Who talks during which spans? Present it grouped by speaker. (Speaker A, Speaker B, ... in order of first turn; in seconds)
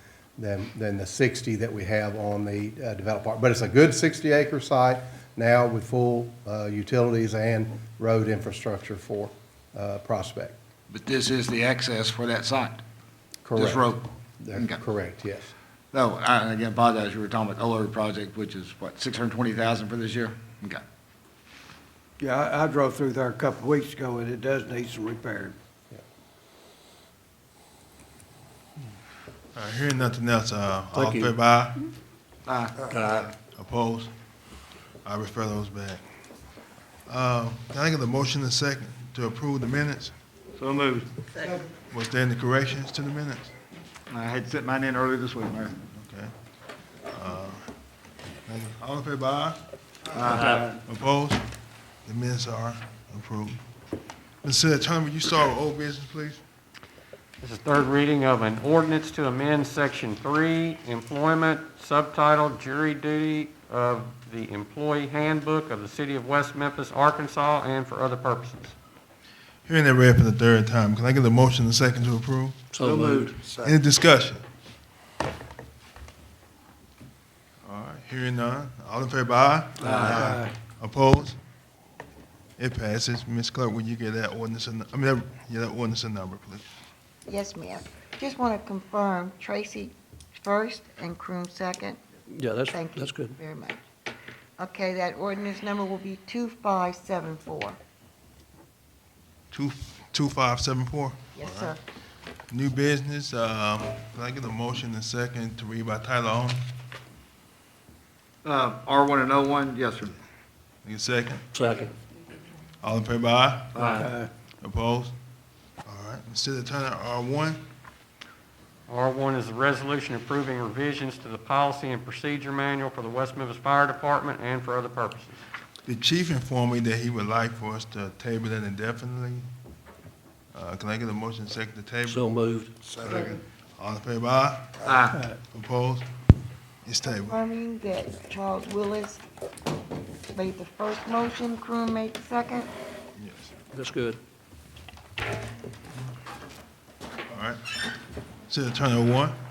Speaker A: 0.4-10.6, 13.4-15.5
Speaker B: 10.9-12.8, 13.6-14.0, 15.9-20.8, 32.5-33.2, 40.6-41.1, 44.1-45.8, 50.1-50.8, 79.8-80.1, 108.4-110.2, 113.7-114.0, 134.8-135.2
Speaker C: 22.2-25.6, 73.0-73.7, 79.9-80.5, 114.0-114.3, 132.9-133.3
Speaker D: 29.5-31.9, 33.5-34.1, 35.0-36.0, 37.1-40.1, 41.9-43.5, 45.9-46.3, 47.1-47.6, 48.5-49.6, 50.9-51.4, 52.0-53.6, 54.4-56.4, 69.7-72.6, 73.6-74.4, 77.6-81.4, 82.6-86.6, 99.5-101.8, 102.5-106.7, 110.8-111.5, 112.8-113.9, 114.6-115.1, 115.8-117.6, 125.9-129.4, 130.5-132.3, 133.0-134.9, 135.5-136.1, 136.8-137.4, 143.2-143.5, 147.3-147.6, 148.5-149.4
Speaker E: 30.9-31.3, 32.9-33.3, 72.7-73.4, 92.3-93.3, 111.5-111.9, 113.8-114.1, 132.1-132.7, 143.7-144.2
Speaker F: 57.4-68.7, 118.9-125.4
Speaker G: 87.2-92.0, 92.7-93.8, 94.6-97.8, 101.3-101.8, 137.1-139.2, 140.3-142.7